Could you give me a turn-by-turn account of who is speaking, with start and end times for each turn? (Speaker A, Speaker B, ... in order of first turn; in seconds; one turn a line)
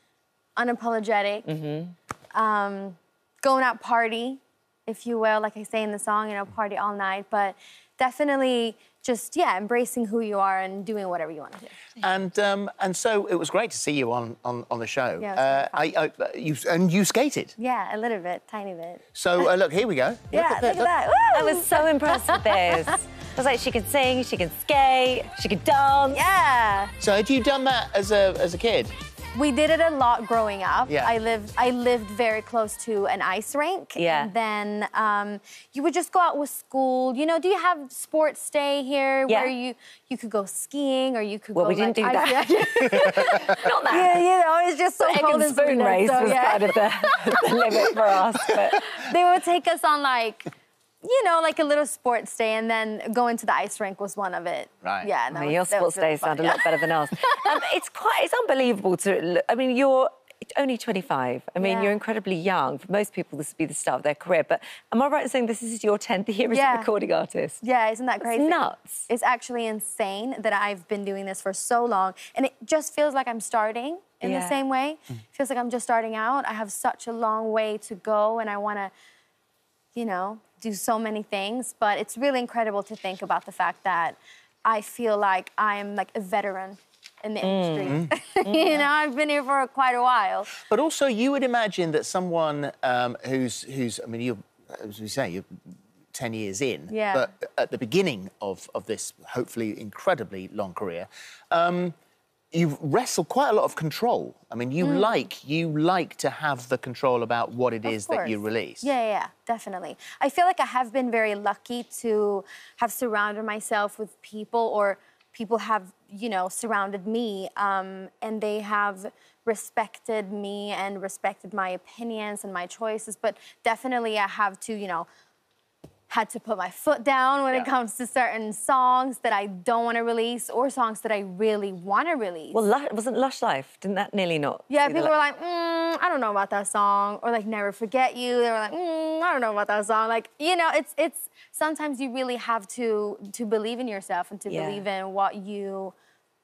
Speaker A: 0.6-1.5
Speaker B: 1.5-1.9
Speaker A: 2.3-11.7
Speaker C: 12.0-17.5
Speaker A: 15.2-15.9
Speaker A: 17.6-19.5
Speaker C: 19.1-20.9
Speaker A: 20.3-22.9
Speaker B: 21.3-26.2
Speaker A: 26.1-26.9
Speaker C: 27.0-28.9
Speaker A: 29.3-50.5
Speaker B: 34.0-34.3
Speaker B: 39.3-39.5
Speaker B: 41.5-44.2
Speaker C: 43.3-43.6
Speaker B: 45.0-48.8
Speaker A: 51.0-57.5
Speaker C: 54.8-55.1
Speaker B: 55.3-67.6
Speaker A: 61.6-62.0
Speaker A: 66.5-66.9
Speaker A: 67.6-78.9
Speaker B: 68.3-69.1
Speaker B: 74.2-74.6
Speaker A: 79.9-90.6
Speaker B: 87.4-88.0
Speaker C: 87.8-88.1
Speaker C: 90.6-101.9
Speaker A: 96.9-97.3
Speaker C: 102.5-108.9
Speaker A: 104.8-105.2
Speaker A: 107.8-125.1
Speaker A: 126.1-132.6
Speaker B: 132.5-135.1
Speaker A: 134.7-145.9
Speaker B: 144.5-144.8